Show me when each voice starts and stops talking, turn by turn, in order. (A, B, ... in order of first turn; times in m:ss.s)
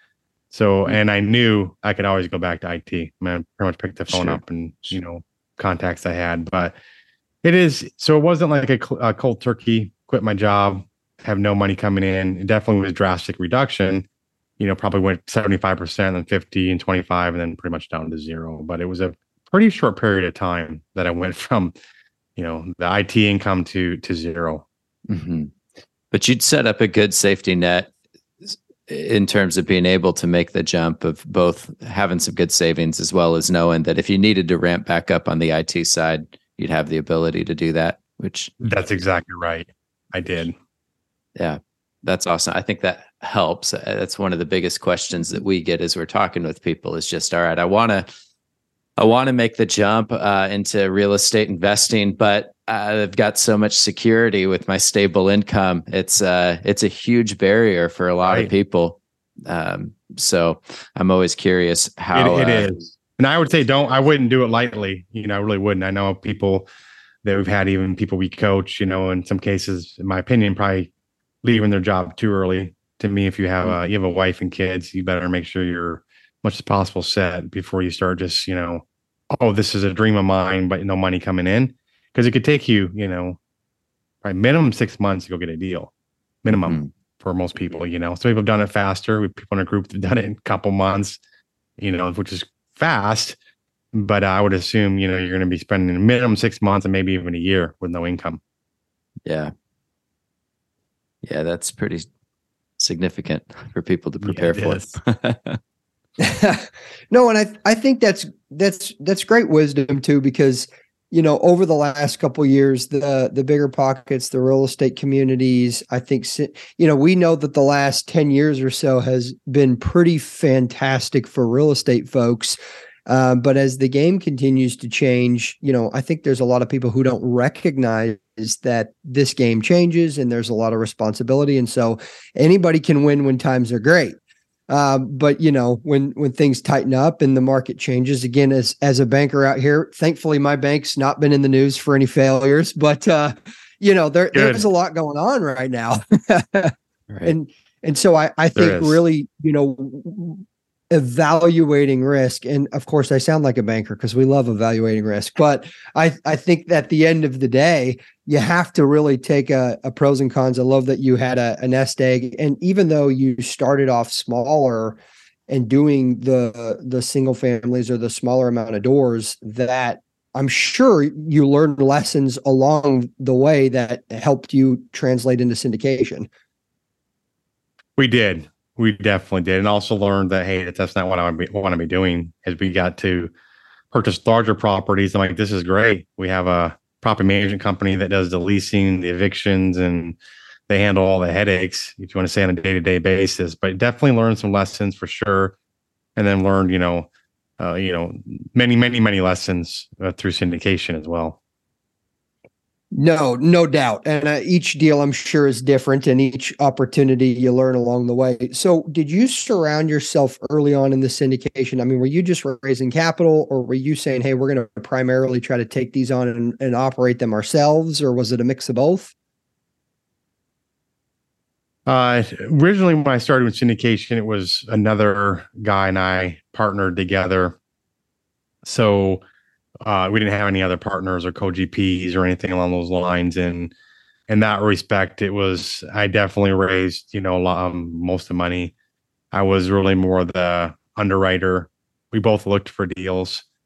0:00.5-0:06.8 A
0:04.1-0:04.4 B
0:07.4-0:14.0 A
0:14.6-0:21.7 A
0:22.4-0:24.6 A
0:25.1-0:25.5 B
0:26.1-0:27.9 B
0:28.4-0:38.5 B
0:38.6-0:40.5 A
0:41.4-0:48.1 B
0:49.0-1:02.7 B
1:02.1-1:06.7 A
1:07.2-1:10.9 A
1:11.4-1:23.4 A
1:24.2-1:25.9 A
1:26.4-1:31.2 A
1:26.6-1:26.9 B
1:31.8-1:33.4 A
1:33.9-1:38.4 A
1:39.2-1:39.5 B
1:41.2-1:42.1 B
1:42.8-1:45.6 B
1:44.2-1:44.9 A
1:46.2-2:14.2 C
2:14.7-2:26.7 C
2:24.3-2:24.6 A
2:27.1-2:27.3 B
2:27.3-2:45.0 C
2:28.5-2:29.0 A
2:45.5-2:56.3 C
2:58.0-3:03.3 A
3:03.9-3:10.2 A
3:10.7-3:15.6 A
3:16.2-3:17.1 A
3:17.6-3:21.4 A
3:22.9-3:39.1 C
3:41.9-3:47.6 A
3:48.6-3:49.2 A
3:49.8-3:53.7 A
3:54.3-3:58.7 A
3:59.3-4:03.4 A